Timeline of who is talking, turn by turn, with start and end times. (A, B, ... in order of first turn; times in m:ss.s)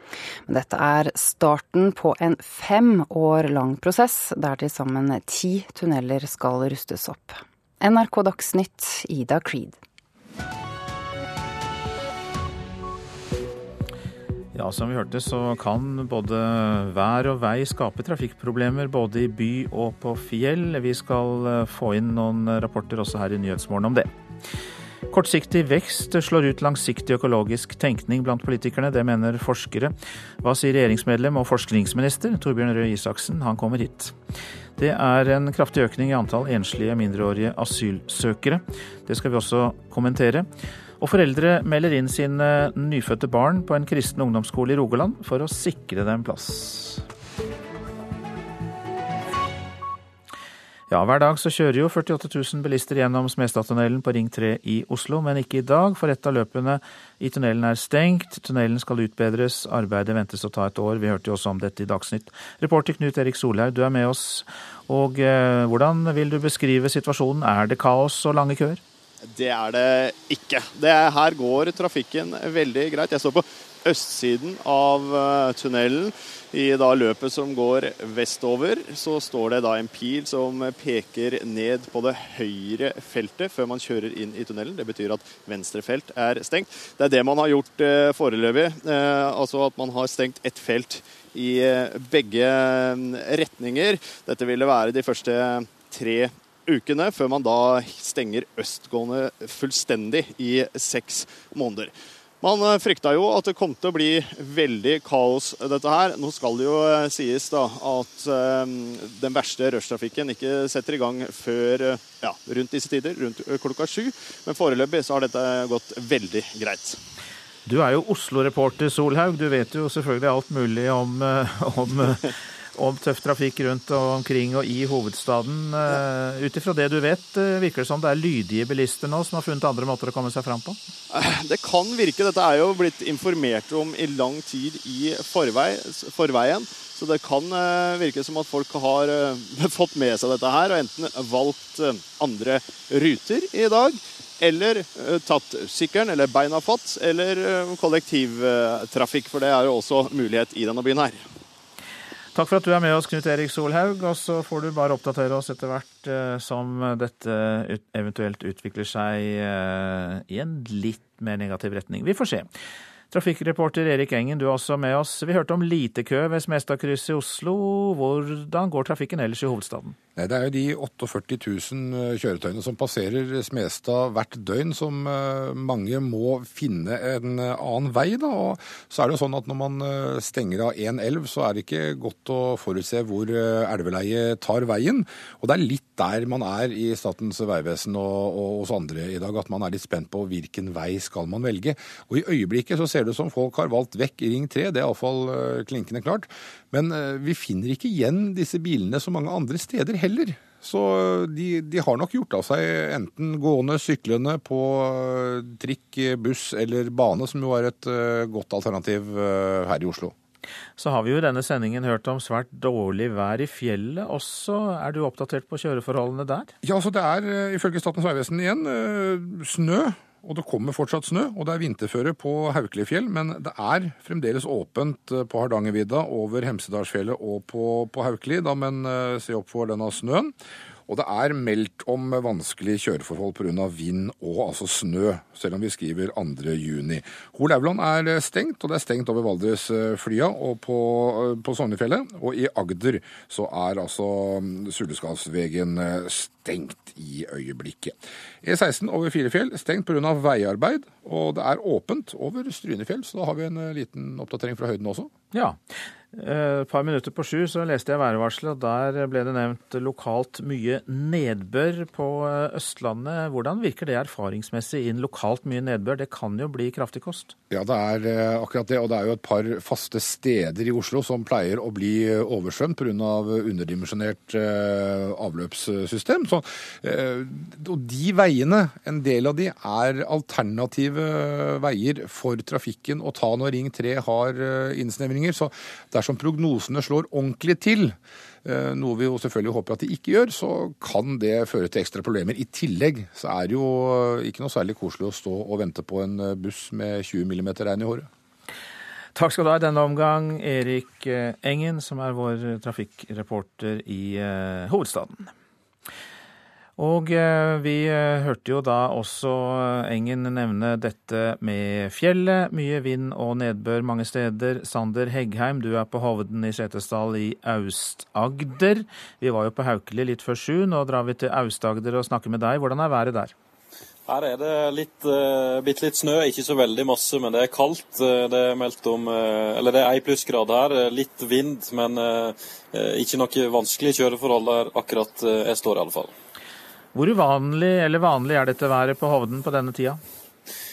0:00.5-0:09.8 A
0:14.5-0:24.1 B
0:25.1-0:34.2 B
0:34.8-0:40.5 B
0:41.0-0:47.0 B
0:50.9-1:08.8 B
1:09.3-1:57.0 C
1:57.6-2:10.8 B
2:11.1-2:31.2 C
2:32.3-2:42.5 B
2:43.1-2:50.0 B
2:50.2-3:30.1 D
3:30.8-3:36.5 B
3:36.6-3:50.3 D
3:50.9-4:15.1 D
4:15.3-4:15.6 B
4:16.1-4:27.3 B
4:27.5-4:58.1 D
4:59.1-5:05.3 B
5:06.8-5:23.3 B
5:24.1-5:36.1 E
5:36.9-5:40.0 B